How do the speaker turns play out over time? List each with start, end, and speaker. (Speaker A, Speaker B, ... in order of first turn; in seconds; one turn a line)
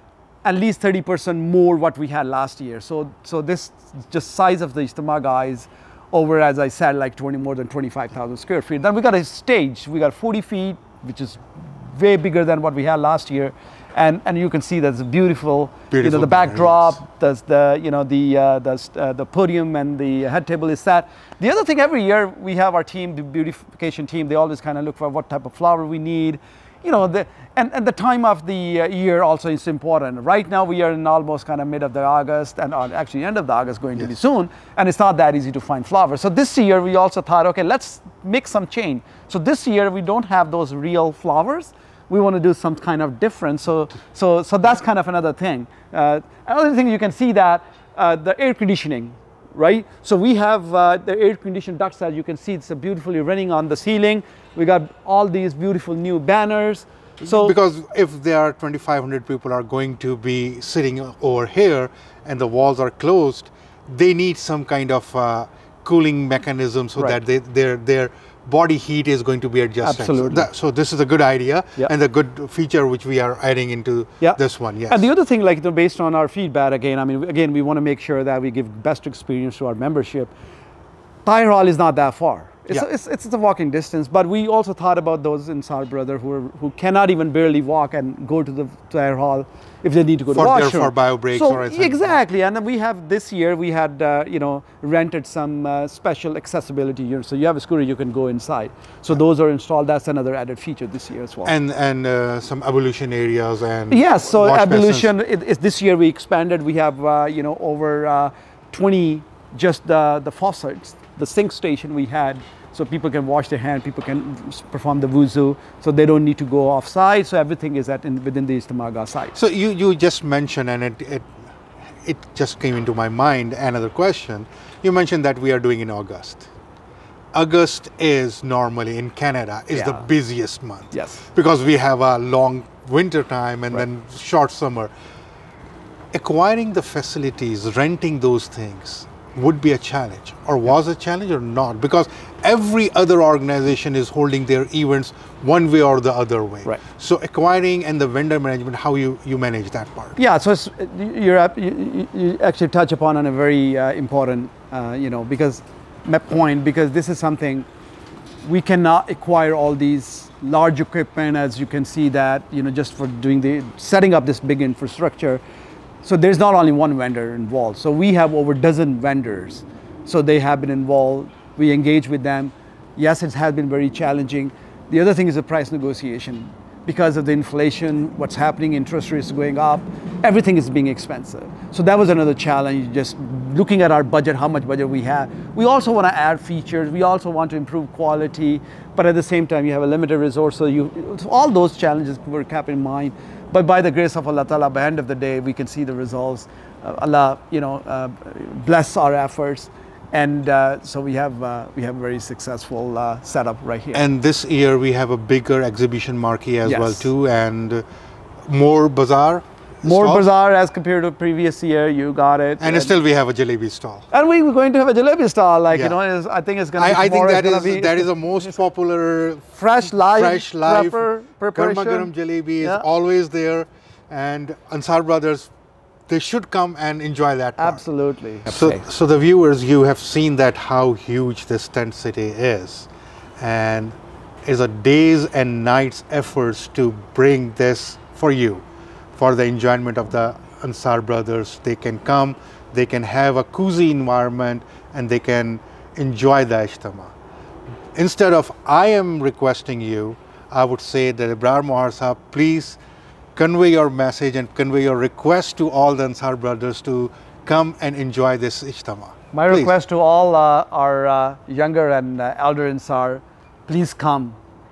Speaker A: 0.4-57.5
Speaker B: 15.9-17.0
Speaker B: 57.2-75.0
Speaker A: 69.8-70.5
Speaker A: 74.2-80.3
Speaker A: 81.2-101.5
Speaker B: 90.3-92.2
Speaker B: 101.5-105.1
Speaker A: 103.9-119.4
Speaker B: 119.3-121.3
Speaker B: 122.0-126.5
Speaker B: 127.3-134.9
Speaker A: 129.7-130.1
Speaker A: 130.9-131.3
Speaker B: 136.1-150.2
Speaker A: 150.2-157.7
Speaker A: 158.4-165.4
Speaker A: 166.0-204.0
Speaker B: 203.9-207.8
Speaker A: 206.7-207.1
Speaker B: 208.5-210.3
Speaker A: 209.8-212.9
Speaker B: 212.6-214.1
Speaker A: 214.1-218.6
Speaker B: 216.8-219.5
Speaker A: 219.6-222.9
Speaker B: 220.0-225.5
Speaker B: 226.1-227.8
Speaker A: 227.6-228.8
Speaker B: 228.5-232.9
Speaker B: 233.4-238.6
Speaker B: 239.2-247.1
Speaker B: 247.9-252.8
Speaker B: 253.4-259.7
Speaker A: 259.3-264.4